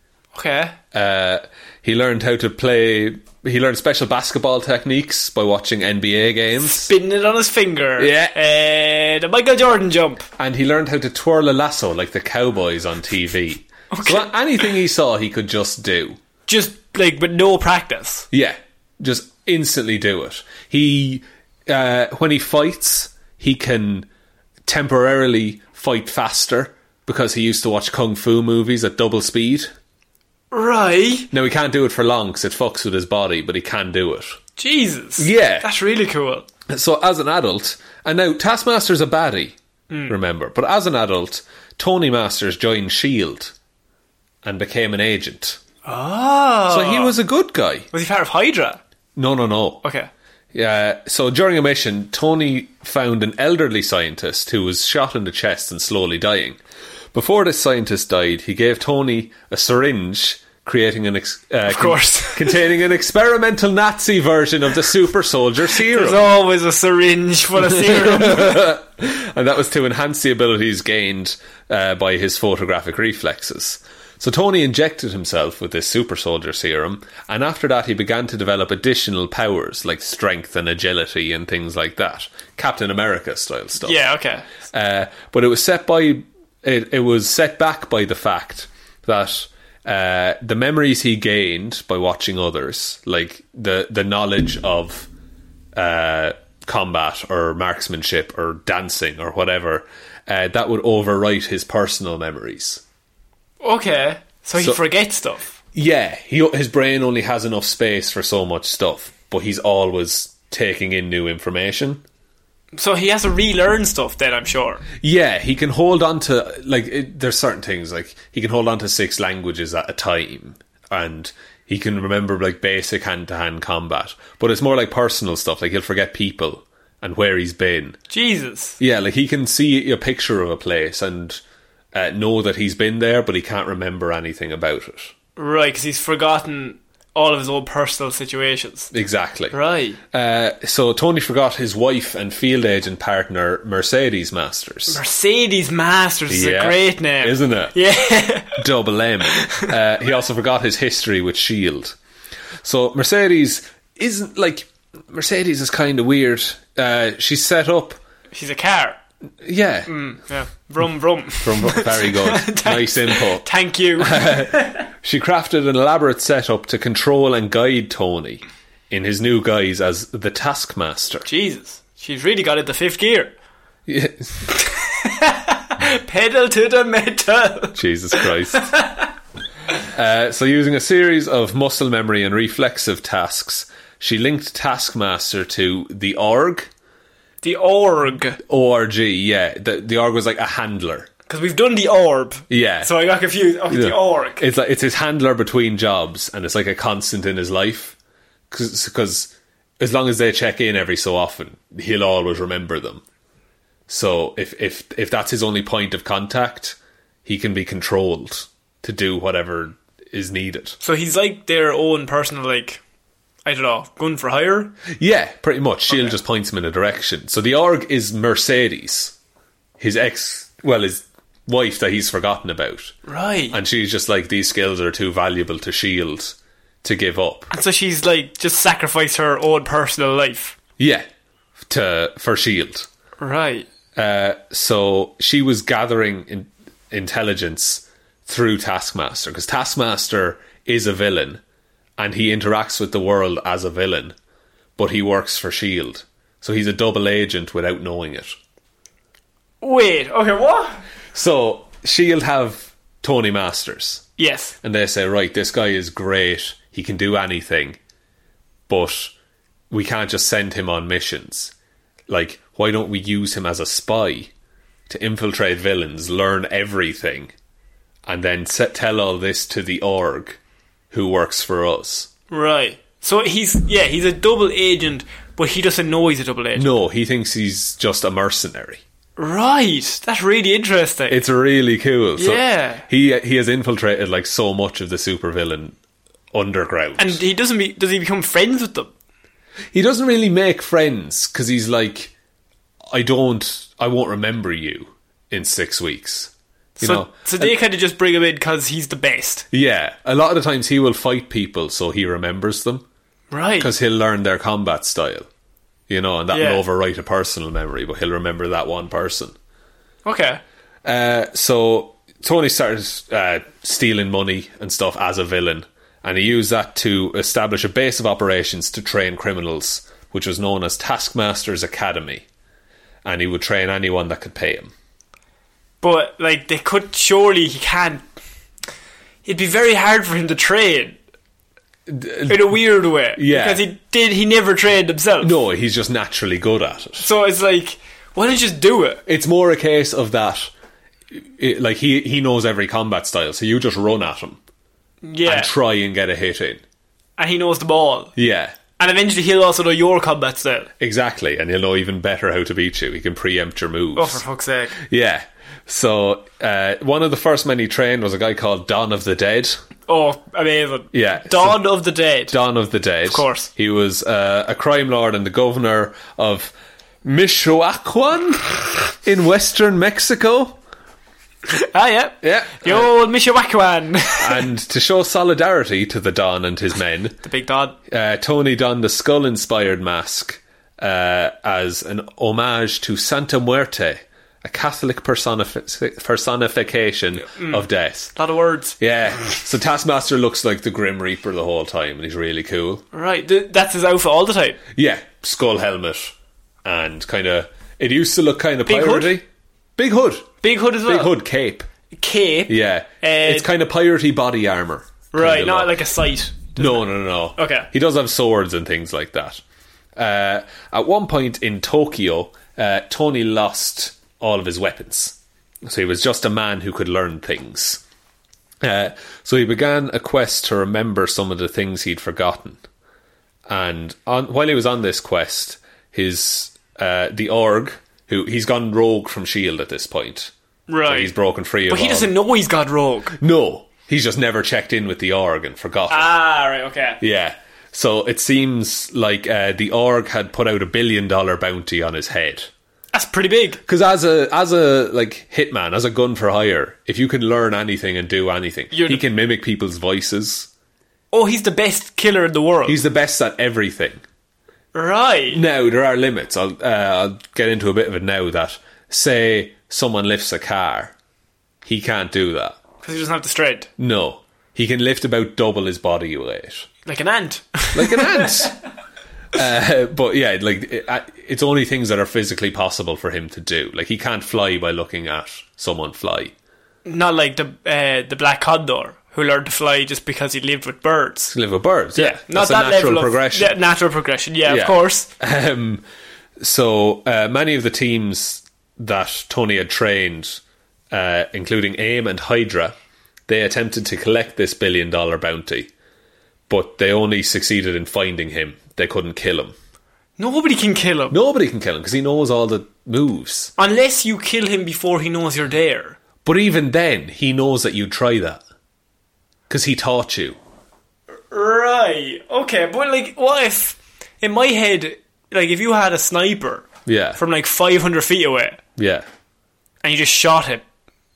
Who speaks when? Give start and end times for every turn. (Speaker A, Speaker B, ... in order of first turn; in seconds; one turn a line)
Speaker A: 0.3-0.8
Speaker B: 0.9-6.9
Speaker A: 6.6-10.3
Speaker B: 8.0-8.3
Speaker B: 10.4-16.2
Speaker A: 13.9-14.3
Speaker A: 16.5-18.3
Speaker B: 18.3-24.1
Speaker B: 24.6-29.7
Speaker A: 30.5-31.3
Speaker B: 31.3-34.4
Speaker A: 34.6-36.5
Speaker B: 35.2-35.7
Speaker B: 36.7-39.6
Speaker A: 39.9-40.1
Speaker B: 40.1-43.5
Speaker B: 44.4-45.6
Speaker A: 45.8-47.1
Speaker B: 46.7-47.9
Speaker A: 47.9-48.8
Speaker B: 49.1-49.8
Speaker A: 49.8-50.1
Speaker B: 50.5-56.6
Speaker B: 57.1-66.2
Speaker A: 61.7-62.7
Speaker A: 65.9-68.6
Speaker B: 67.6-84.1
Speaker A: 83.8-84.5
Speaker B: 84.7-95.1
Speaker B: 95.8-102.8
Speaker A: 103.6-105.5
Speaker B: 105.7-112.0
Speaker A: 112.7-114.8
Speaker B: 115.0-128.0
Speaker A: 128.1-128.8
Speaker B: 128.8-131.4
Speaker B: 131.9-135.1
Speaker A: 135.4-138.9
Speaker B: 138.9-139.6
Speaker A: 139.5-140.0
Speaker B: 140.1-145.0
Speaker A: 144.9-148.6
Speaker B: 146.3-147.8
Speaker B: 148.6-152.0
Speaker A: 149.3-149.7
Speaker B: 152.6-158.0
Speaker A: 158.3-159.0
Speaker B: 159.4-159.9
Speaker A: 159.9-164.9
Speaker B: 161.4-163.5
Speaker B: 164.0-171.3
Speaker A: 171.2-173.3
Speaker B: 173.9-174.5
Speaker A: 174.5-179.1
Speaker B: 177.8-178.7
Speaker B: 179.9-186.7
Speaker A: 187.4-188.4
Speaker B: 188.5-191.1
Speaker A: 191.3-194.4
Speaker B: 192.5-192.9
Speaker B: 193.7-197.9
Speaker B: 198.5-203.0
Speaker B: 203.9-210.8
Speaker A: 210.8-212.8
Speaker A: 213.4-214.8
Speaker B: 214.9-219.1
Speaker B: 219.8-222.9
Speaker A: 223.1-223.6
Speaker B: 223.5-227.5
Speaker A: 227.5-230.6
Speaker B: 230.8-231.1
Speaker B: 231.6-232.9
Speaker A: 233.2-233.7
Speaker B: 233.9-241.4
Speaker B: 242.0-244.1
Speaker B: 244.8-248.4
Speaker A: 249.6-250.8
Speaker B: 251.1-254.1
Speaker A: 254.2-254.6
Speaker B: 254.6-257.8
Speaker B: 258.7-259.1
Speaker B: 259.7-261.5
Speaker B: 262.1-264.3
Speaker B: 264.9-267.3
Speaker B: 268.1-270.4
Speaker B: 270.9-272.1
Speaker A: 272.3-276.7
Speaker B: 276.6-278.8
Speaker A: 279.2-281.2
Speaker B: 281.1-285.8
Speaker A: 282.2-282.9
Speaker B: 286.3-287.2
Speaker A: 287.0-288.9
Speaker B: 289.7-292.1
Speaker B: 292.9-297.5
Speaker A: 296.8-299.5
Speaker B: 299.5-302.9
Speaker A: 303.3-303.7
Speaker B: 303.6-305.3
Speaker B: 305.9-309.4
Speaker A: 306.3-306.6
Speaker A: 310.0-310.4
Speaker B: 310.9-322.2
Speaker B: 323.0-324.7
Speaker A: 325.8-328.0
Speaker A: 329.2-331.0
Speaker B: 331.9-332.6
Speaker A: 332.3-335.4
Speaker B: 333.1-333.7
Speaker B: 335.2-337.1
Speaker A: 337.0-339.0
Speaker B: 339.1-340.5
Speaker B: 341.1-344.4
Speaker A: 345.0-345.5
Speaker B: 345.2-346.6
Speaker A: 347.2-348.1
Speaker B: 348.1-348.6
Speaker A: 348.8-350.7
Speaker B: 350.8-354.2
Speaker A: 354.0-354.8
Speaker B: 354.8-359.6
Speaker A: 359.9-362.4
Speaker B: 360.9-361.6
Speaker B: 362.3-366.5
Speaker A: 363.1-363.5
Speaker B: 367.0-370.6
Speaker A: 371.5-374.4
Speaker B: 372.2-372.9
Speaker B: 374.2-377.2
Speaker A: 377.2-377.8
Speaker B: 377.9-388.1
Speaker A: 387.2-388.8
Speaker B: 388.8-392.8
Speaker A: 392.9-394.6
Speaker B: 394.8-399.2
Speaker A: 398.6-399.2
Speaker B: 399.8-401.7
Speaker A: 400.4-401.2
Speaker A: 401.9-403.5
Speaker B: 402.5-405.8
Speaker A: 405.1-407.7
Speaker B: 406.6-409.4
Speaker B: 410.0-417.8
Speaker B: 418.6-422.6
Speaker B: 423.5-430.3
Speaker A: 430.7-431.1
Speaker B: 430.9-432.1
Speaker A: 431.7-433.2
Speaker B: 433.2-436.1
Speaker A: 435.9-437.0
Speaker B: 437.0-442.5
Speaker A: 442.9-443.6
Speaker B: 443.6-450.5
Speaker A: 448.7-449.0
Speaker A: 451.1-452.8
Speaker B: 452.6-454.0
Speaker A: 454.7-455.4
Speaker B: 455.3-460.9
Speaker B: 461.6-462.6
Speaker A: 462.8-463.7
Speaker B: 463.8-466.7
Speaker A: 466.9-468.5
Speaker B: 467.7-468.6
Speaker B: 469.3-476.3
Speaker A: 476.9-481.4
Speaker B: 481.3-483.6
Speaker A: 481.9-485.1
Speaker B: 484.4-485.8
Speaker B: 486.4-490.4
Speaker B: 490.9-492.8
Speaker B: 493.3-495.7
Speaker B: 496.5-499.6
Speaker A: 500.2-501.2
Speaker B: 501.1-503.5
Speaker A: 503.6-506.0
Speaker B: 506.2-508.4
Speaker B: 509.5-510.4
Speaker A: 511.3-518.6
Speaker B: 516.9-517.2
Speaker B: 518.8-519.1
Speaker A: 519.8-520.6